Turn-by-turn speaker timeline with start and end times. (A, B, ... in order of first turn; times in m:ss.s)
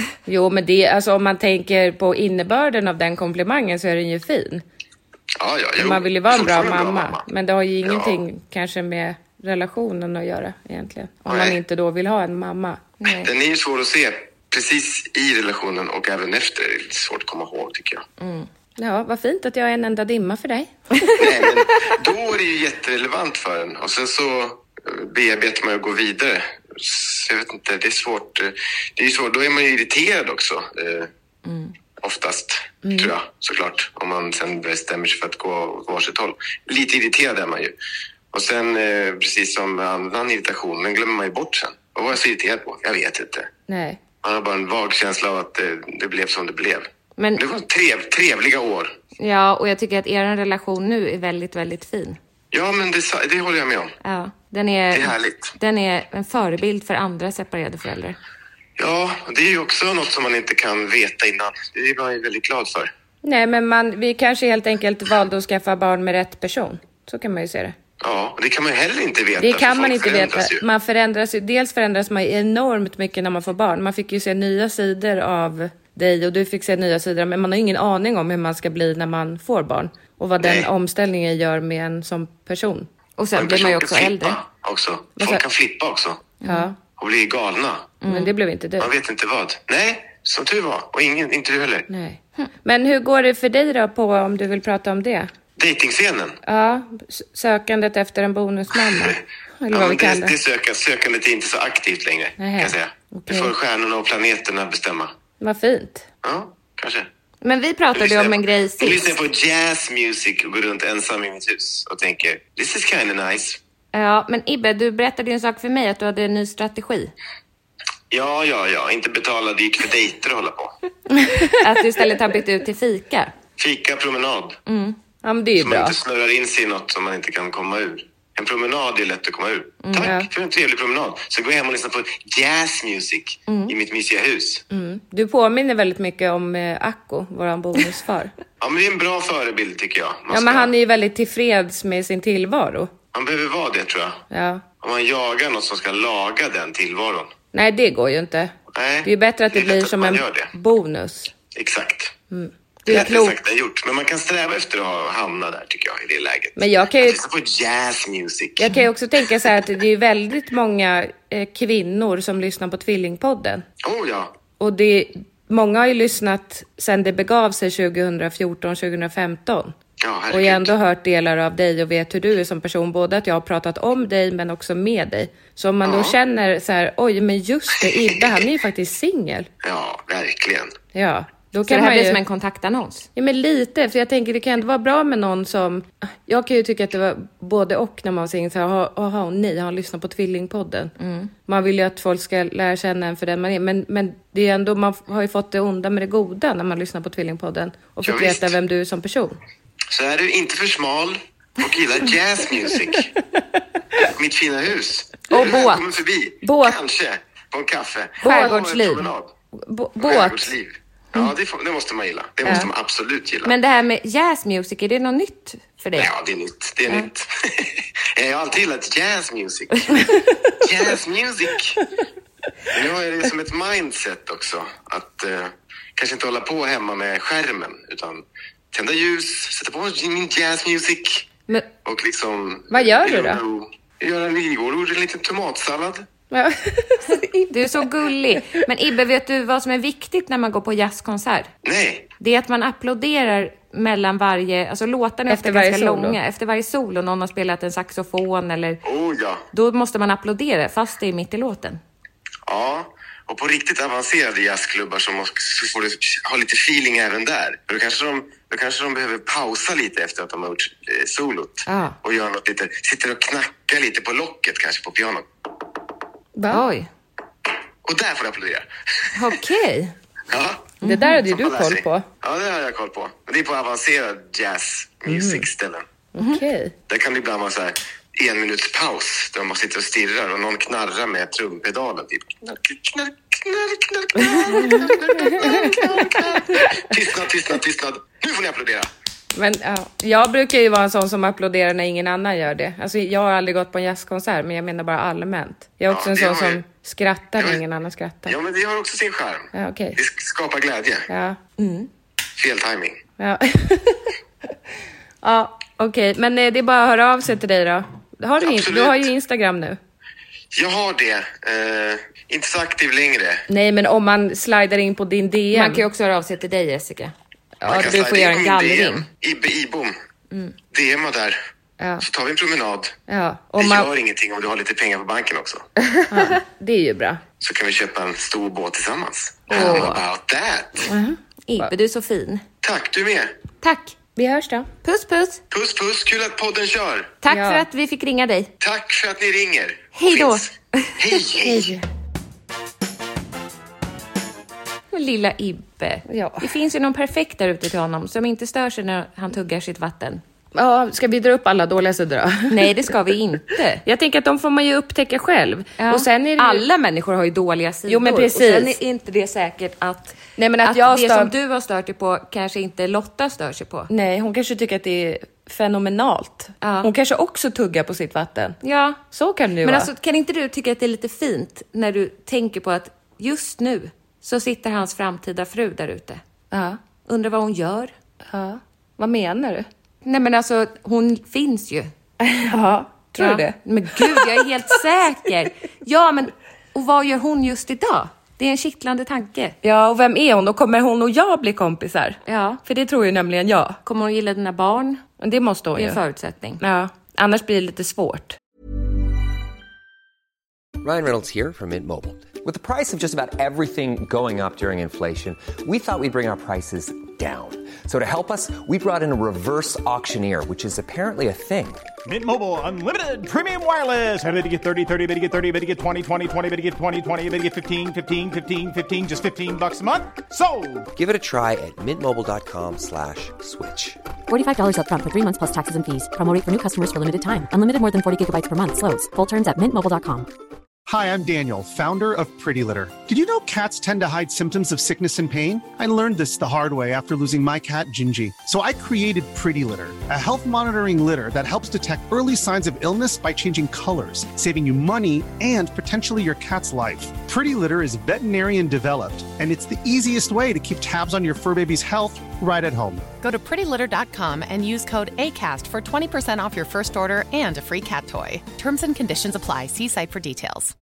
0:00.2-0:04.6 A
0:05.4-0:07.2 B
0:05.8-0:12.9 A
0:07.8-0:08.2 B
0:11.3-0:11.6 B
0:13.0-0:13.3 C
0:13.1-0:18.0 B
0:18.2-0:18.5 C
0:18.8-0:21.2 A
0:21.2-0:31.1 B
0:31.4-0:31.7 C
0:32.0-0:37.7 B
0:38.3-0:43.5 B
0:43.7-0:44.0 A
0:44.2-0:48.9 B
0:49.2-0:52.2 C
0:52.5-0:54.0 B
0:54.0-0:58.2 C
0:54.9-0:55.5 B
0:58.8-1:02.9 B
1:03.2-1:07.7 A
1:08.0-1:10.6 B
1:09.4-1:22.9 A
1:20.4-1:20.7 B
1:23.2-1:24.4 C
1:23.4-1:26.3 B
1:26.4-1:26.7 C
1:26.4-1:26.8 A
1:27.0-1:27.9 B
1:28.0-1:28.3 C
1:28.1-1:28.9 A
1:28.8-1:31.9 B
1:31.9-1:35.3 A
1:35.6-1:36.4 B
1:36.4-1:40.3 A
1:39.7-1:45.1 B
1:42.4-1:43.5 A
1:45.4-1:46.0 A
1:46.2-1:47.1 B
1:47.4-1:49.1 C
1:47.9-1:53.6 B
1:53.9-1:57.1 C
1:58.1-2:00.7 B
2:01.6-2:03.3 C
2:03.6-2:04.6 B
2:04.6-2:05.0 C
2:05.2-2:06.0 A
2:05.6-2:14.6 B
2:09.8-2:10.1 C
2:13.5-2:13.7 C
2:14.7-2:18.3 A
2:18.6-2:20.7 B
2:20.3-2:22.9 A
2:23.1-2:24.2 B
2:24.3-2:24.6 A
2:24.8-2:27.3 B
2:27.5-2:28.5 A
2:28.7-2:30.5 B
2:29.0-2:31.3 A
2:31.5-2:32.1 B
2:32.3-2:33.3 A
2:32.9-2:38.8 B
2:36.6-2:37.2 A
2:38.6-2:43.6 A
2:43.8-2:44.3 B
2:44.6-2:49.7 A
2:50.0-2:50.7 B
2:50.3-2:59.5 A
2:55.8-2:56.2 B
2:59.6-3:00.7 B
3:00.9-3:02.2 A
3:01.6-3:03.1 C
3:03.2-3:10.9 A
3:11.0-3:11.3 C
3:11.4-3:19.4 A
3:18.0-3:18.6 B
3:19.9-3:23.1 B
3:24.1-3:29.3 B
3:25.3-3:25.8 C
3:26.4-3:26.7 C
3:28.2-3:30.5 A
3:28.2-3:28.6 C
3:30.0-3:33.5 B
3:33.4-3:36.1 C
3:36.0-3:41.8 B
3:42.7-3:56.0 B
3:52.7-3:53.4 A
3:56.3-3:57.7 A
3:57.5-4:01.5 C
4:01.6-4:02.1 B
4:02.2-4:08.8 C
4:05.3-4:06.2 A
4:08.8-4:09.4 B
4:09.5-4:11.8 C
4:12.4-4:25.2 B
4:21.6-4:22.0 C
4:26.3-4:26.6 A
4:26.5-4:26.9 C
4:27.8-4:29.1 B
4:29.1-4:29.9 C
4:30.3-4:35.8 B
4:30.8-4:31.2 C
4:30.8-4:32.0 A
4:35.1-4:35.4 A
4:36.1-4:36.7 A
4:36.2-4:36.4 C
4:36.9-4:48.9 B
4:44.3-4:46.6 A
4:49.3-4:58.3 A
4:55.9-4:56.6 B
4:58.3-5:01.1 B
4:59.5-5:00.0 A
5:01.1-5:01.4 A
5:01.6-5:01.9 C
5:02.4-5:03.0 B
5:03.2-5:04.1 A
5:05.2-5:09.8 A
5:08.4-5:09.1 B
5:10.5-5:13.4 B
5:13.5-5:15.8 A
5:15.5-5:17.1 C
5:17.6-5:18.0 A
5:17.6-5:19.9 B
5:17.7-5:19.0 C
5:20.7-5:21.4 B
5:21.8-5:22.0 A
5:22.0-5:23.0 B
5:23.1-5:23.9 A
5:23.6-5:25.6 B
5:26.1-5:27.2 A
5:27.4-5:30.9 B
5:29.5-5:30.0 C
5:29.5-5:29.9 A
5:30.9-5:31.7 A
5:31.5-5:32.4 C
5:32.6-5:33.3 B
5:33.6-5:34.0 C
5:34.2-5:34.7 A
5:34.8-5:35.4 C
5:35.5-5:37.2 B
5:37.2-5:38.5 C
5:37.3-5:37.6 A
5:38.6-5:41.7 B
5:39.9-5:41.0 C
5:41.4-5:41.8 A
5:44.9-5:50.2 C
5:46.1-5:46.5 A
5:50.5-5:52.9 A
5:52.5-5:53.8 C
5:53.8-5:56.6 A
5:55.8-6:03.9 C
5:57.8-5:58.8 A
6:00.4-6:01.3 A
6:03.9-6:08.6 A
6:06.6-6:06.9 C
6:08.6-6:09.0 C
6:09.1-6:09.9 A
6:09.6-6:16.2 C
6:16.5-6:16.8 A
6:17.0-6:17.9 C
6:18.3-6:19.7 A
6:20.0-6:21.9 C
6:22.2-6:24.3 A
6:23.2-6:29.6 C
6:29.6-6:33.8 A
6:32.2-6:32.6 C
6:33.8-6:35.0 C
6:35.2-6:36.0 A
6:35.8-6:36.6 C
6:36.6-6:38.4 A
6:40.8-6:51.8 D
6:52.0-7:00.9 E
7:00.9-7:04.0 D
7:04.3-7:10.3 F
7:10.9-7:33.1 G
7:33.2-7:40.7 H